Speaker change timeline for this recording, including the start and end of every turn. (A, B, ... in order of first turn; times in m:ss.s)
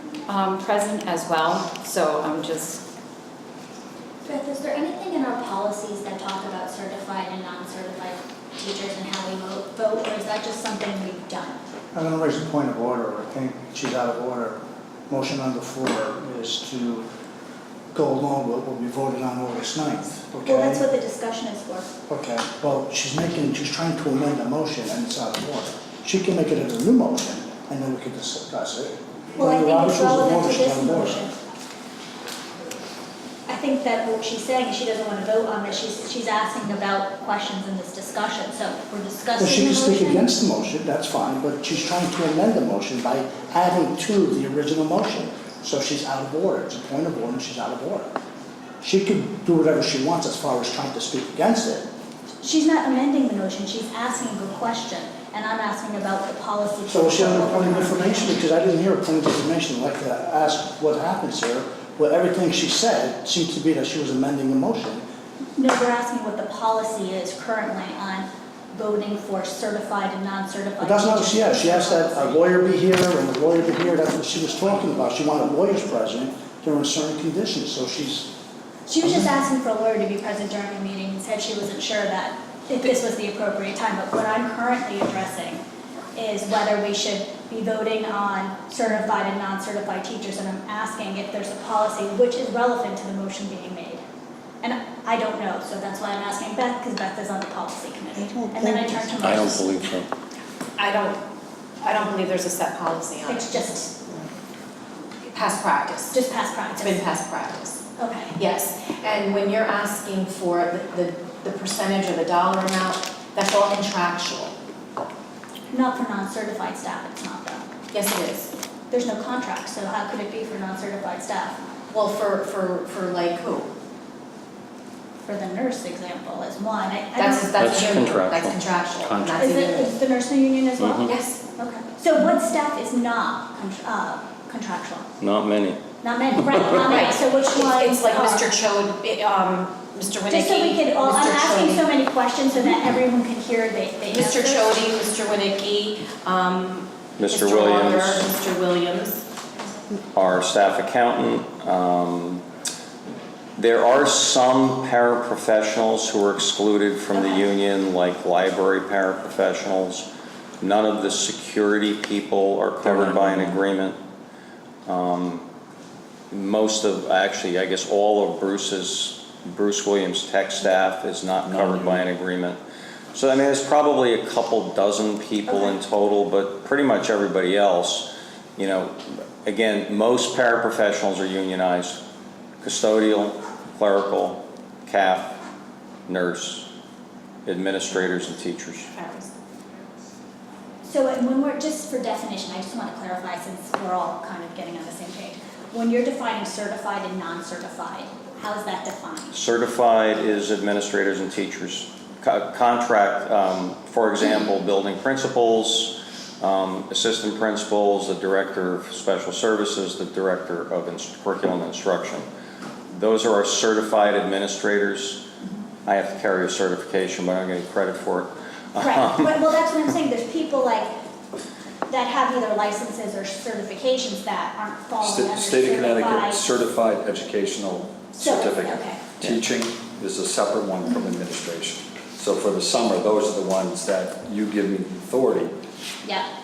0:00.3-0:02.8 A
0:04.2-0:11.6 B
0:11.9-0:17.0 C
0:17.9-0:20.8 C
0:20.4-0:21.9 B
0:22.1-0:31.2 C
0:29.4-0:31.3 B
0:33.5-0:40.4 B
0:39.4-0:48.1 C
0:48.8-0:51.9 C
0:52.4-0:58.4 B
0:56.9-1:05.0 C
1:05.6-1:12.4 B
1:10.8-1:18.3 C
1:18.9-1:25.6 B
1:19.0-1:19.3 C
1:26.2-1:34.0 B
1:34.6-1:39.9 B
1:40.8-1:41.2 D
1:41.8-1:43.5 D
1:43.2-1:43.9 B
1:45.3-1:46.2 D
1:46.1-1:47.0 B
1:46.8-1:47.8 D
1:48.0-1:48.3 B
1:48.4-1:54.5 D
1:55.7-1:57.6 B
1:57.9-1:58.5 D
1:58.9-2:01.6 B
2:01.9-2:03.7 D
2:05.2-2:07.6 B
2:07.2-2:09.9 D
2:07.6-2:08.6 E
2:09.0-2:09.3 F
2:09.3-2:15.1 B
2:10.8-2:11.1 E
2:11.0-2:11.4 D
2:15.2-2:15.8 E
2:16.0-2:18.5 B
2:16.8-2:21.9 D
2:20.3-2:24.8 B
2:24.1-2:29.2 D
2:27.2-2:28.3 E
2:30.1-2:32.4 E
2:33.6-2:40.0 E
2:40.6-2:44.0 E
2:42.8-2:43.6 F
2:44.8-2:45.4 E
2:46.3-2:52.6 E
2:51.4-2:52.0 F
2:53.1-3:02.0 E
3:02.6-3:05.3 E
3:06.1-3:06.7 E
3:07.4-3:08.9 E
3:08.9-3:09.3 D
3:10.8-3:19.4 B
3:19.3-3:32.2 E
3:32.9-3:35.2 E
3:35.8-3:39.2 E
3:38.8-3:40.9 B
3:41.9-3:46.4 B
3:45.0-3:55.5 F
3:48.2-3:49.0 B
3:50.8-3:51.1 B